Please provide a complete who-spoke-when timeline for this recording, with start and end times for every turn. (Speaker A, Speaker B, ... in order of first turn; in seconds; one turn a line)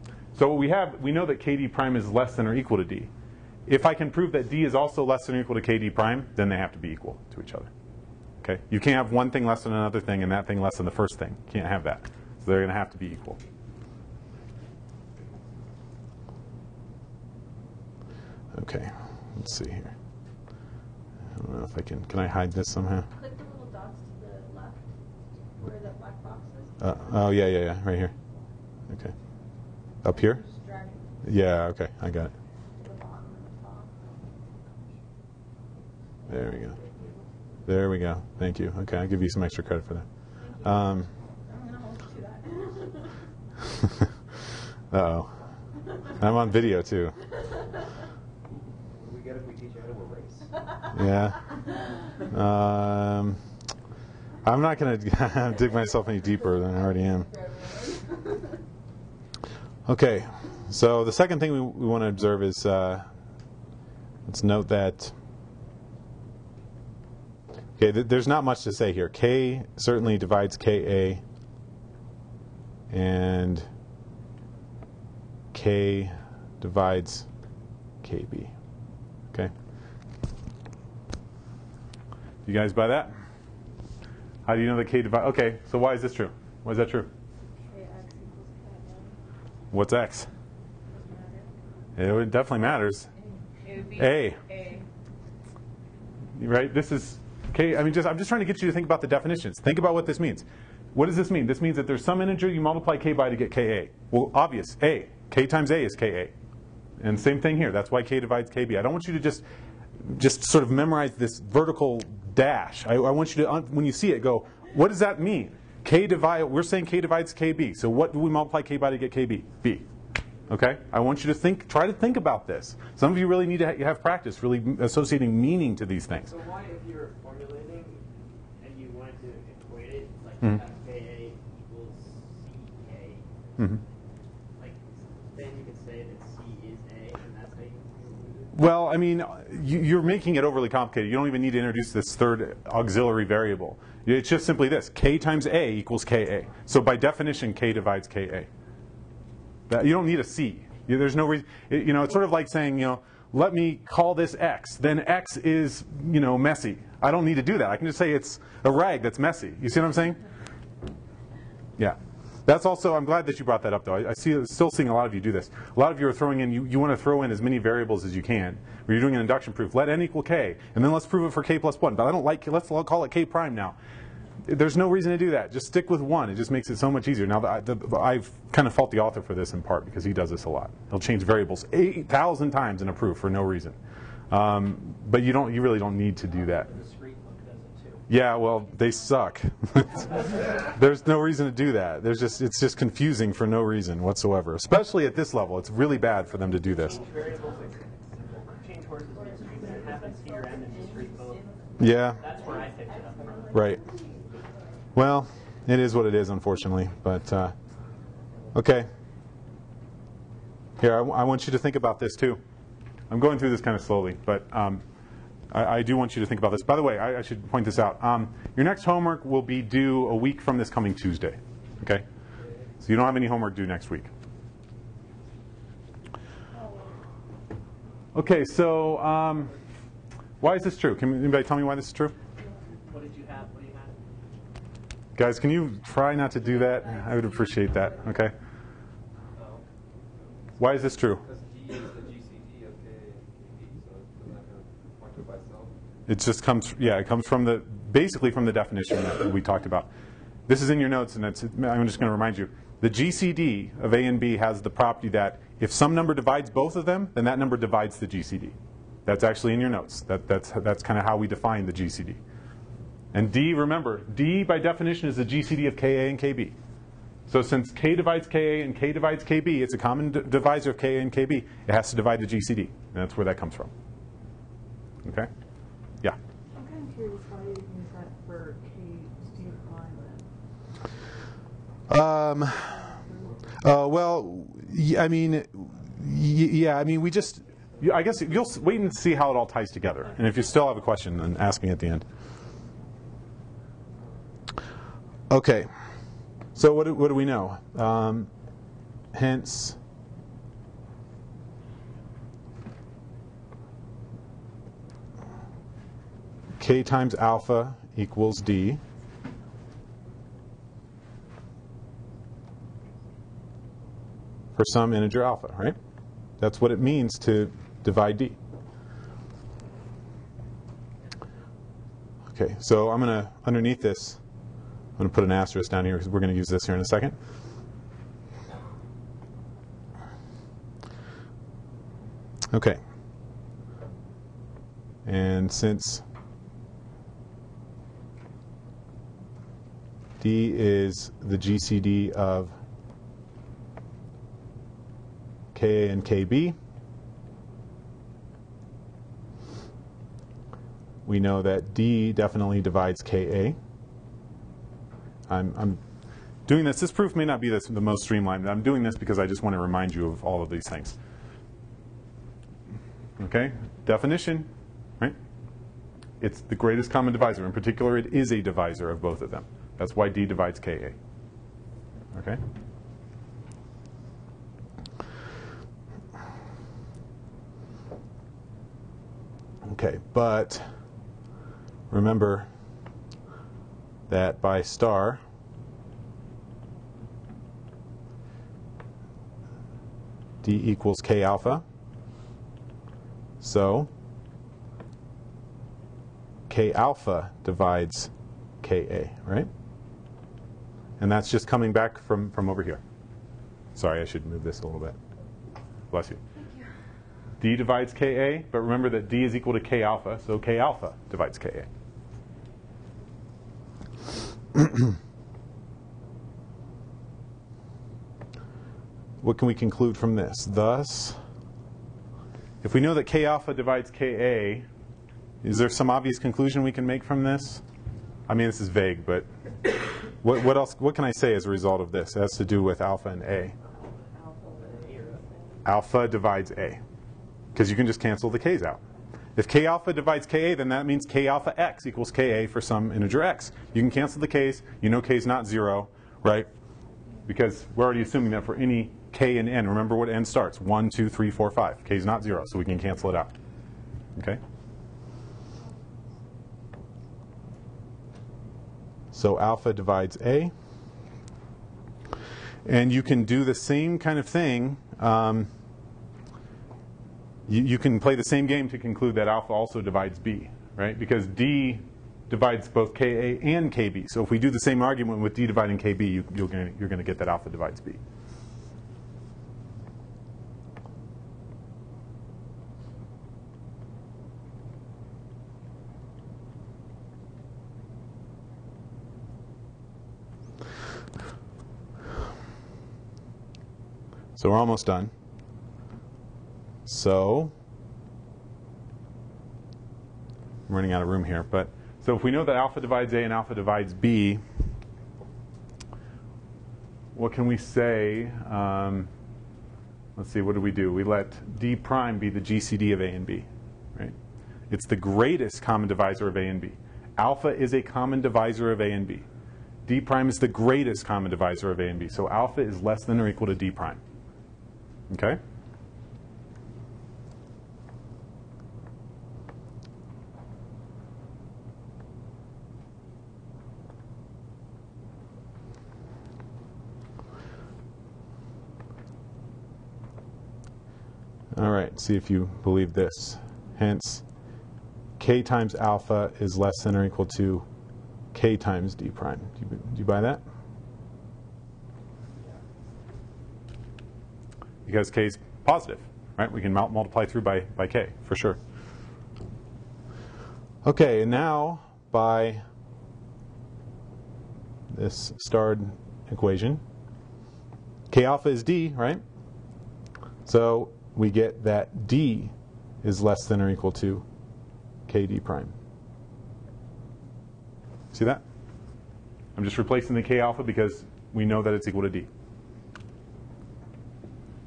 Speaker A: 0.3-3.1
Speaker A: 3.7-7.7
Speaker A: 8.4-13.4
Speaker A: 18.5-19.9
Speaker A: 21.4-23.1
Speaker B: 23.1-24.8
Speaker B: 25.6-27.0
Speaker A: 26.8-28.1
Speaker A: 28.9-29.1
Speaker A: 30.0-30.4
Speaker B: 30.4-31.2
Speaker A: 31.2-32.3
Speaker B: 32.8-34.2
Speaker B: 36.2-37.3
Speaker A: 36.3-36.8
Speaker A: 37.6-40.1
Speaker B: 40.4-43.1
Speaker A: 40.6-41.1
Speaker A: 44.9-45.4
Speaker A: 46.2-47.2
Speaker C: 48.9-50.5
Speaker A: 50.9-51.5
Speaker A: 52.3-53.4
Speaker A: 54.4-57.3
Speaker B: 56.2-58.6
Speaker A: 59.9-63.1
Speaker A: 64.3-65.1
Speaker A: 67.8-71.2
Speaker A: 72.9-73.7
Speaker A: 75.5-77.3
Speaker A: 78.0-78.5
Speaker A: 82.5-83.2
Speaker A: 84.5-87.1
Speaker B: 87.7-89.2
Speaker A: 89.7-90.3
Speaker B: 90.9-91.5
Speaker A: 92.0-93.1
Speaker B: 93.6-94.9
Speaker A: 94.0-94.4
Speaker A: 96.4-106.3
Speaker A: 107.0-109.5
Speaker A: 110.0-119.9
Speaker A: 120.5-126.3
Speaker D: 126.3-128.1
Speaker D: 128.6-133.8
Speaker D: 134.6-138.5
Speaker A: 138.5-148.5
Speaker A: 149.7-160.2
Speaker A: 161.8-173.8
Speaker A: 174.4-183.8
Speaker A: 184.3-186.7
Speaker D: 186.2-188.1
Speaker A: 188.1-197.0
Speaker B: 188.3-189.2
Speaker D: 196.6-201.5
Speaker C: 196.9-197.8
Speaker B: 199.2-204.8
Speaker A: 201.8-202.2
Speaker D: 202.2-203.7
Speaker A: 203.5-203.8
Speaker A: 204.9-207.6
Speaker A: 208.5-208.9
Speaker A: 210.8-212.4
Speaker A: 213.1-214.8
Speaker A: 215.5-222.1
Speaker A: 222.8-224.1
Speaker A: 228.1-229.5
Speaker A: 230.4-232.1
Speaker D: 232.9-234.0
Speaker A: 235.2-238.3
Speaker B: 236.4-238.3
Speaker C: 240.2-245.8
Speaker A: 240.6-241.2
Speaker A: 246.1-249.9
Speaker A: 250.5-258.6
Speaker A: 259.1-262.2
Speaker A: 263.1-266.6
Speaker A: 267.3-273.7
Speaker A: 275.0-275.3
Speaker E: 276.6-280.3
Speaker A: 281.9-282.9
Speaker E: 282.8-283.4
Speaker A: 283.6-292.1
Speaker A: 295.3-295.7
Speaker A: 296.6-298.3
Speaker A: 299.1-299.8
Speaker A: 306.6-308.8
Speaker A: 314.6-315.8
Speaker A: 316.4-318.4
Speaker A: 322.3-324.2
Speaker A: 325.0-327.2
Speaker A: 332.5-332.8
Speaker A: 335.1-336.0
Speaker A: 340.2-342.6
Speaker A: 345.5-346.6
Speaker A: 351.1-353.6
Speaker A: 355.3-355.8
Speaker A: 356.5-361.0
Speaker A: 363.2-365.2
Speaker A: 366.2-371.0
Speaker A: 372.1-372.4
Speaker A: 379.7-380.7
Speaker A: 381.9-382.5
Speaker A: 384.1-385.2
Speaker A: 390.4-391.6
Speaker A: 393.4-393.9
Speaker A: 396.5-398.1
Speaker A: 398.6-399.5
Speaker A: 401.0-402.8
Speaker A: 403.8-405.0
Speaker A: 405.9-406.2
Speaker A: 407.4-411.7
Speaker A: 419.2-421.2
Speaker A: 422.6-424.7
Speaker A: 425.4-427.6
Speaker A: 428.3-429.3
Speaker A: 430.2-433.6
Speaker D: 433.8-435.3
Speaker E: 434.1-435.5
Speaker A: 435.6-436.8
Speaker A: 437.6-438.8
Speaker A: 439.4-446.5
Speaker A: 447.3-453.3
Speaker A: 454.2-454.4
Speaker A: 459.1-460.5
Speaker A: 462.6-465.5
Speaker A: 467.5-478.0
Speaker A: 494.4-495.1
Speaker A: 496.9-497.5
Speaker A: 500.7-504.4
Speaker A: 507.1-509.1
Speaker A: 510.2-514.1
Speaker A: 514.7-519.3
Speaker A: 519.9-524.0
Speaker A: 525.1-525.4
Speaker A: 541.5-544.2
Speaker A: 545.2-547.7
Speaker A: 548.3-550.4
Speaker A: 554.9-558.6
Speaker A: 560.8-562.6
Speaker A: 564.9-566.8
Speaker A: 568.1-569.2
Speaker A: 570.5-574.2
Speaker A: 575.1-575.7
Speaker A: 578.1-578.4
Speaker A: 579.5-582.3